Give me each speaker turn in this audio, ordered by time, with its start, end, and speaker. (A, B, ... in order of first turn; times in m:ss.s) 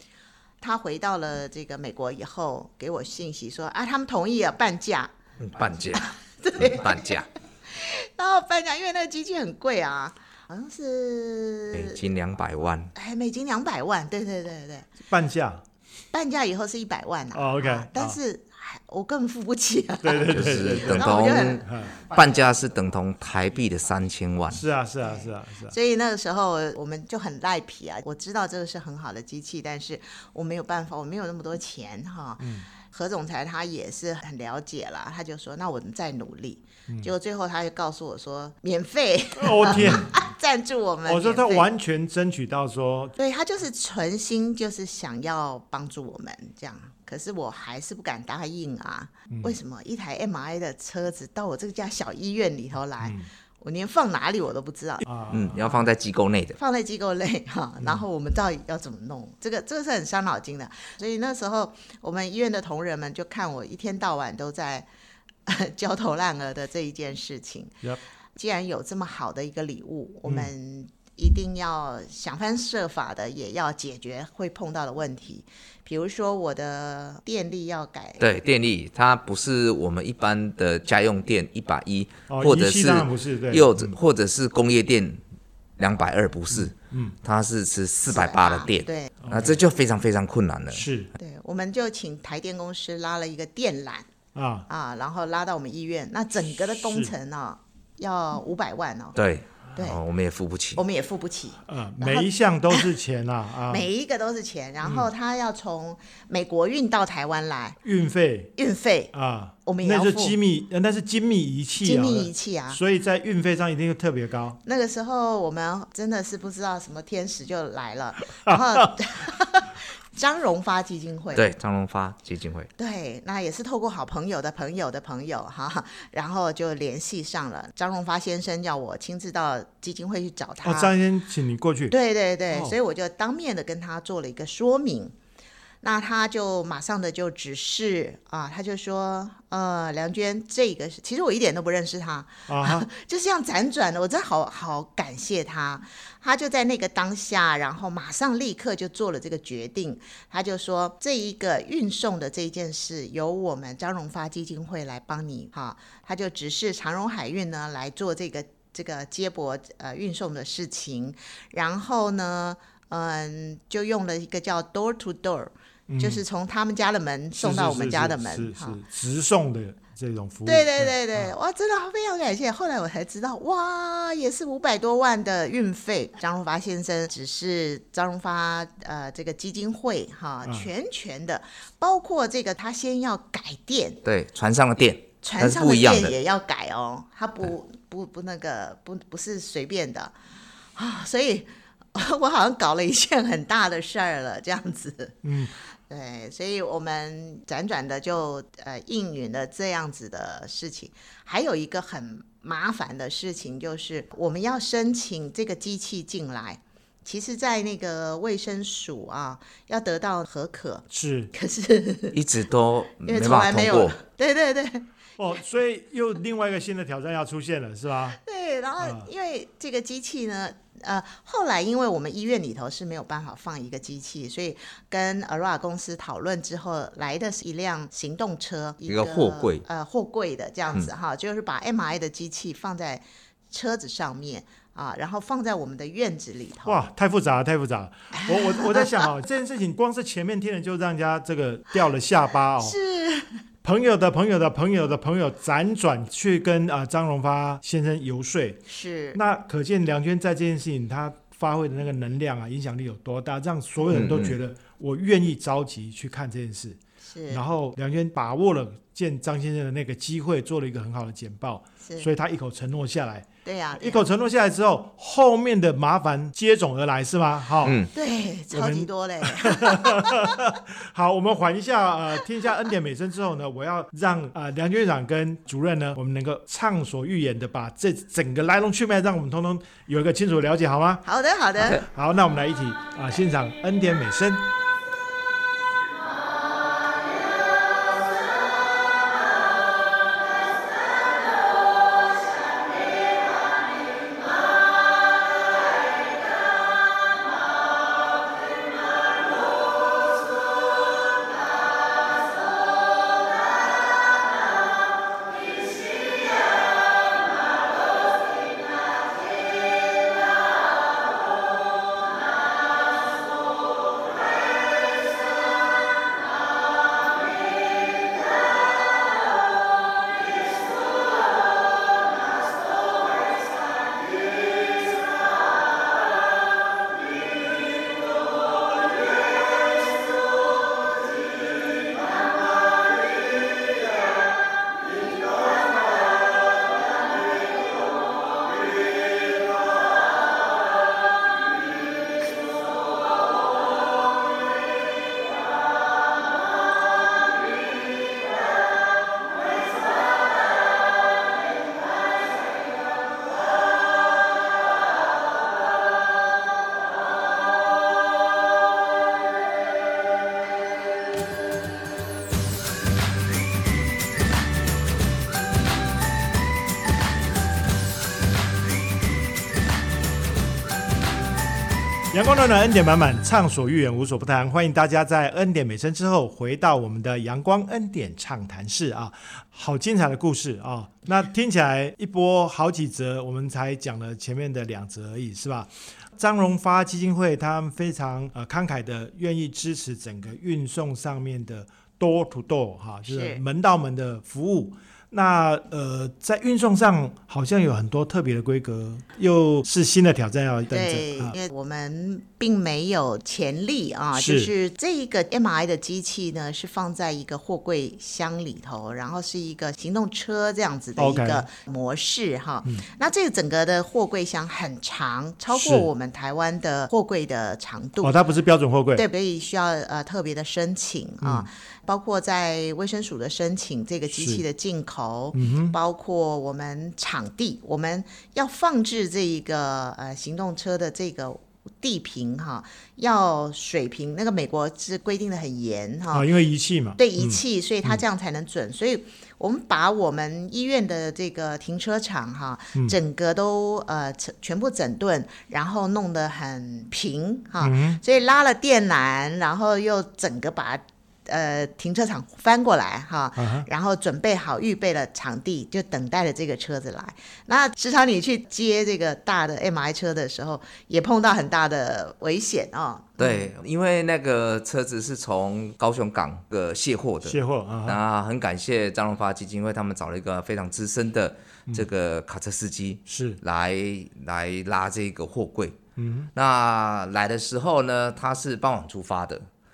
0:00.6-0:05.1 A
0:05.4-0:07.3 B
0:06.0-0:12.0 A
0:11.7-0:12.9 B
0:13.0-0:14.9 A
0:15.1-0:15.6 C
0:16.1-0:21.7 A
0:17.3-0:18.2 C
0:20.0-0:22.1 C
0:20.3-0:24.6 B
0:24.5-0:25.8 C
0:25.0-0:41.7 A
0:32.4-0:32.7 C
0:39.4-0:40.2 C
0:41.1-0:43.1 C
0:43.2-0:55.1 A
0:49.3-0:49.6 C
0:53.0-0:53.3 C
0:55.0-0:55.9 C
0:55.3-0:56.6 B
0:56.6-1:04.9 A
1:05.5-1:07.8 A
1:08.4-1:18.2 A
1:18.2-1:25.2 B
1:22.3-1:24.0 C
1:25.8-1:30.9 B
1:26.5-1:27.2 C
1:28.1-1:29.2 A
1:29.2-1:29.6 C
1:30.7-1:31.1 C
1:31.2-1:34.1 A
1:34.4-1:34.7 C
1:34.7-1:39.2 A
1:36.8-1:37.1 C
1:39.2-1:40.8 B
1:40.8-1:42.9 A
1:41.7-1:43.9 C
1:43.7-1:47.8 A
1:44.8-1:45.1 C
1:47.8-1:48.5 C
1:48.6-1:49.1 A
1:49.1-1:54.6 C
1:49.6-1:50.4 A
1:51.8-1:52.8 A
1:54.6-2:01.4 A
1:58.4-1:58.9 C
2:01.4-2:02.7 B
2:02.8-2:10.9 A
2:10.6-2:11.9 C
2:11.9-2:15.1 A
2:12.5-2:12.8 C
2:15.8-2:48.8 A
2:22.5-2:22.9 C
2:45.9-2:46.2 C
2:47.4-2:51.3 C
2:50.5-3:04.0 A
3:00.4-3:00.7 C
3:04.0-3:06.2 B
3:05.2-3:10.1 A
3:10.8-3:15.2 A
3:15.2-3:15.5 C
3:15.9-3:32.2 A
3:30.9-3:31.3 C
3:32.1-3:34.0 B
3:33.0-3:34.8 A
3:35.2-3:38.2 C
3:38.2-3:56.8 A
3:38.8-3:39.1 C
3:48.9-3:49.6 B
3:56.7-4:02.8 C
3:58.1-3:59.1 A
4:02.6-4:03.4 A
4:03.6-4:08.6 C
4:08.7-4:09.2 A
4:09.1-4:16.8 C
4:13.9-4:14.4 B
4:17.0-4:17.4 A
4:17.3-4:27.8 C
4:21.8-4:22.1 A
4:23.4-4:24.0 A
4:27.6-4:27.9 B
4:27.9-4:30.4 A
4:28.5-4:41.0 C
4:41.0-4:41.8 A
4:41.6-4:44.5 C
6:12.1-6:41.4 C
6:33.0-6:33.4 A
6:40.7-6:58.2 A
6:44.1-6:44.5 C
6:51.0-6:51.5 C
6:55.5-6:55.9 C
6:58.0-6:59.0 C
6:59.0-7:16.3 A
7:01.2-7:01.5 C
7:04.1-7:04.4 C
7:05.3-7:05.8 C
7:16.1-7:18.0 C
7:17.0-7:43.4 A
7:27.6-7:28.0 C
7:33.4-7:33.7 C
7:43.2-7:55.8 B
7:47.2-7:48.0 C
7:53.1-7:53.4 C
7:56.0-7:56.3 C
7:56.4-7:59.4 B